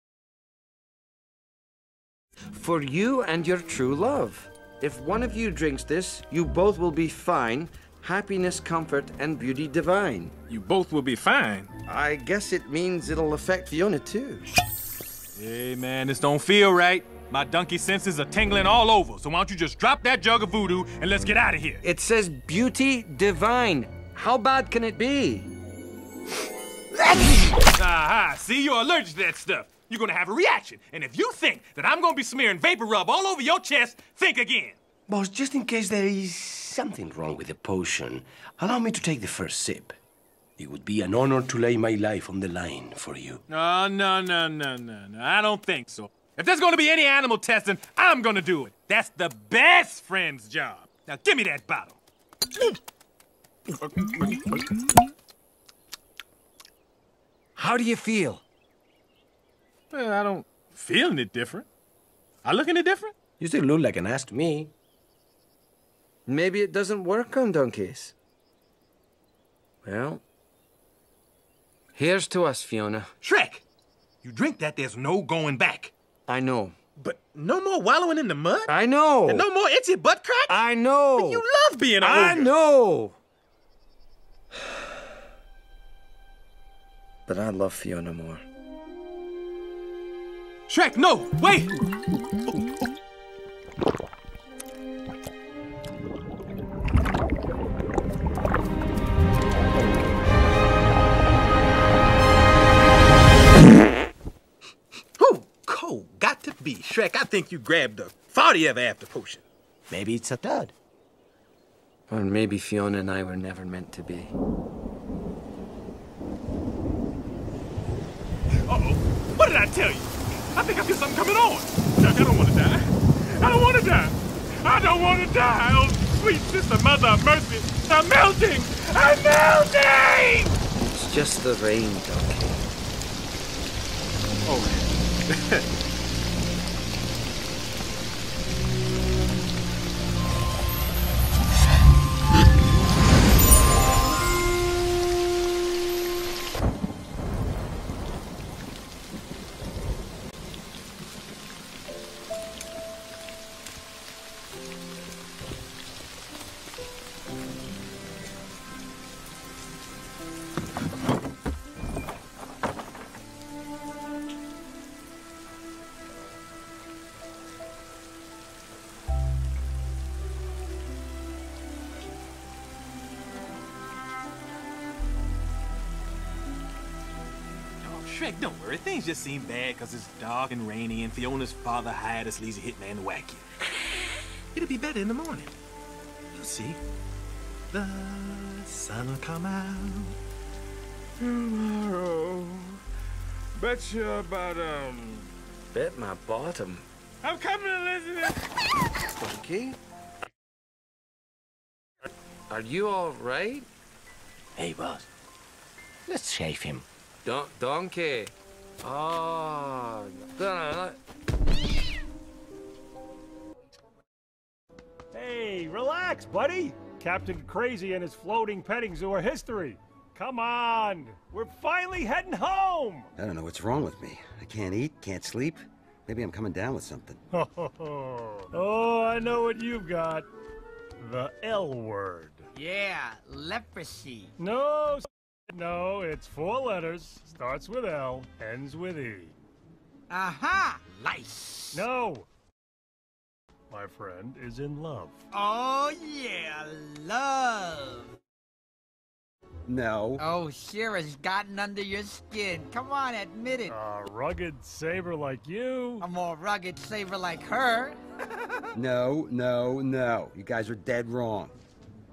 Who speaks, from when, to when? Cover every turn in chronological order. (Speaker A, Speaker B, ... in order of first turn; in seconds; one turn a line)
Speaker A: 2.5-10.3
Speaker B: 10.5-11.7
Speaker A: 11.8-14.5
Speaker B: 15.3-21.8
Speaker A: 21.8-25.5
Speaker B: 27.8-34.8
Speaker C: 35.1-40.0
Speaker C: 40.6-43.4
Speaker B: 43.5-52.0
Speaker A: 57.5-58.4
Speaker B: 59.9-61.7
Speaker B: 62.4-63.1
Speaker C: 63.4-64.7
Speaker A: 66.2-68.1
Speaker A: 69.8-70.2
Speaker A: 71.9-73.1
Speaker B: 73.2-73.6
Speaker B: 74.2-75.9
Speaker A: 76.3-76.7
Speaker B: 77.0-78.7
Speaker A: 78.7-79.5
Speaker B: 79.2-80.6
Speaker A: 80.5-81.4
Speaker B: 81.2-82.5
Speaker A: 82.0-83.2
Speaker A: 87.2-88.4
Speaker B: 90.7-91.7
Speaker B: 105.2-109.4
Speaker C: 109.9-110.7
Speaker A: 112.1-114.3
Speaker B: 118.6-130.6
Speaker A: 130.8-132.7
Speaker B: 134.4-135.6
Speaker B: 177.8-183.4
Speaker B: 184.5-185.5
Speaker B: 186.3-186.8
Speaker B: 187.7-190.2
Speaker A: 195.7-196.8
Speaker B: 197.2-198.4
Speaker A: 199.1-199.8
Speaker A: 202.5-203.7
Speaker C: 204.6-205.1
Speaker C: 206.1-206.8
Speaker A: 207.2-211.0
Speaker D: 215.1-223.1
Speaker E: 223.2-227.2
Speaker D: 227.3-230.3
Speaker D: 231.0-232.5
Speaker F: 232.5-234.3
Speaker D: 234.4-239.3
Speaker F: 240.1-241.8
Speaker D: 241.7-242.3
Speaker D: 243.7-245.2
Speaker F: 245.3-248.2
Speaker E: 249.7-250.2
Speaker F: 250.2-253.8
Speaker D: 253.7-256.1
Speaker F: 256.0-258.0
Speaker E: 258.7-261.6